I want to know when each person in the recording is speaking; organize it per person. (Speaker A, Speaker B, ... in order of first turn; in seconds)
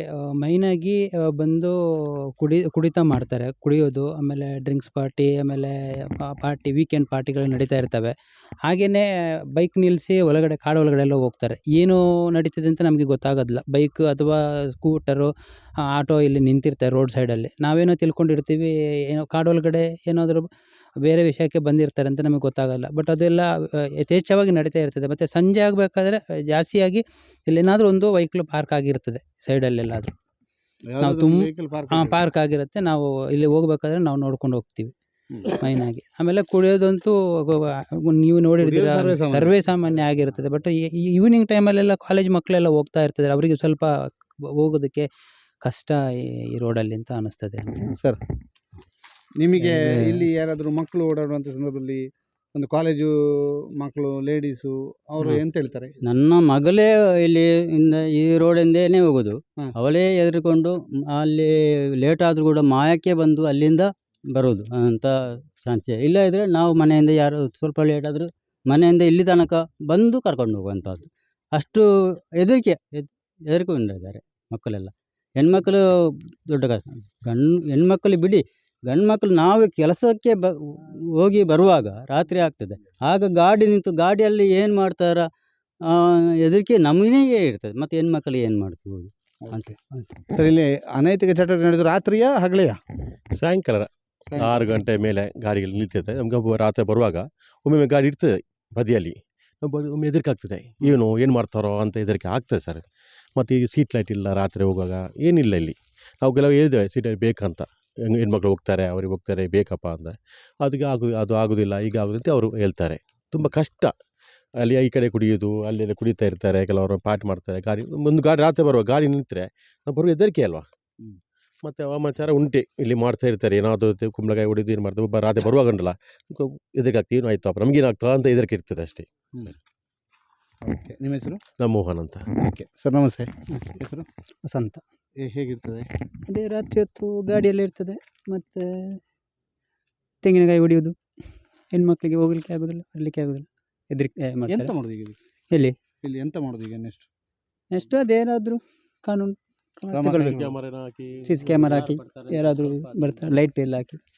Speaker A: 0.4-1.7, 2.4-8.1, 8.6-9.0, 9.6-15.3, 15.9-20.5, 21.0-30.1, 31.0-34.9, 35.5-43.9, 44.6-45.1, 45.6-46.0, 46.5-47.9
Speaker B: 30.9-32.2, 38.6-39.5, 48.0-48.2, 49.4-55.9, 90.3-92.8, 130.6-131.4, 132.4-134.1, 135.2-135.9, 144.5-145.2, 146.0-147.1, 149.9-150.5
Speaker C: 56.0-65.1, 65.6-71.8, 72.4-75.8, 76.5-85.2, 85.9-90.1, 151.7-153.3
Speaker D: 93.3-102.8, 103.4-113.9, 114.6-120.7, 121.6-129.1, 131.6-132.2, 150.2-151.8
Speaker E: 134.4-134.8, 136.3-138.7, 140.2-140.9, 141.7-144.7, 147.7-150.5, 151.2-154.0